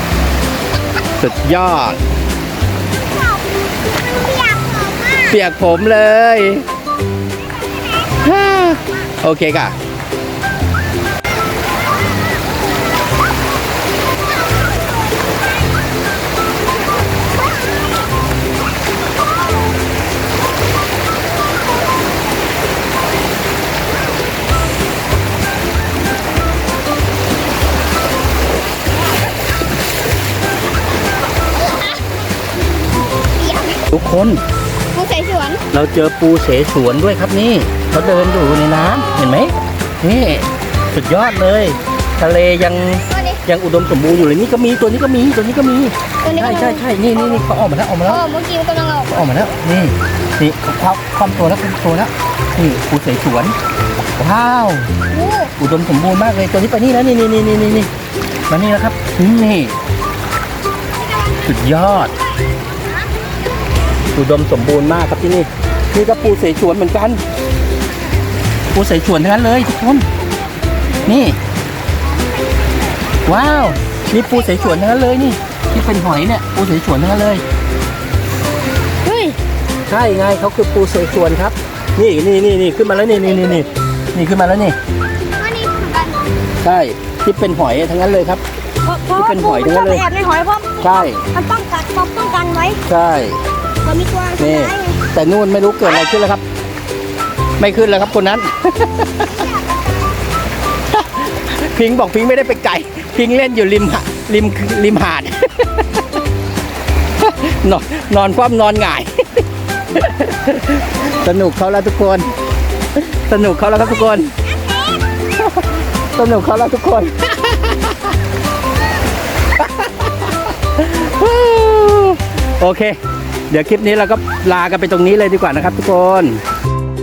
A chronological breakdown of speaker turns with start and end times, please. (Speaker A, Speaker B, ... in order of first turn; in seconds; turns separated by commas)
Speaker A: 1.2-2.0, Speaker B: 4.3-5.0, Speaker A: 5.1-6.6, Speaker A: 8.1-9.7, Speaker B: 33.4-33.8, Speaker A: 33.9-34.4, Speaker B: 34.9-35.6, Speaker A: 35.7-48.2, Speaker B: 43.1-43.4, Speaker B: 46.2-47.4, Speaker B: 48.1-49.1, Speaker A: 49.1-53.5, Speaker A: 54.2-54.9, Speaker B: 55.1-55.5, Speaker A: 55.6-57.9, Speaker A: 58.5-59.8, Speaker A: 61.4-62.1, Speaker A: 64.1-67.2, Speaker A: 68.7-70.1, Speaker A: 71.0-71.4, Speaker A: 73.2-77.4, Speaker A: 79.1-79.3, Speaker A: 79.9-84.8, Speaker B: 83.0-83.8, Speaker B: 85.4-86.2, Speaker A: 86.6-88.4, Speaker B: 88.8-92.8, Speaker A: 89.2-90.0, Speaker A: 90.8-91.2, Speaker A: 92.8-93.4, Speaker B: 93.8-95.0, Speaker A: 94.4-96.4, Speaker A: 97.6-99.4, Speaker A: 100.9-106.0, Speaker A: 107.2-112.2, Speaker A: 113.0-114.3, Speaker B: 114.7-115.0, Speaker A: 115.4-118.1, Speaker A: 119.6-123.0, Speaker A: 123.5-126.4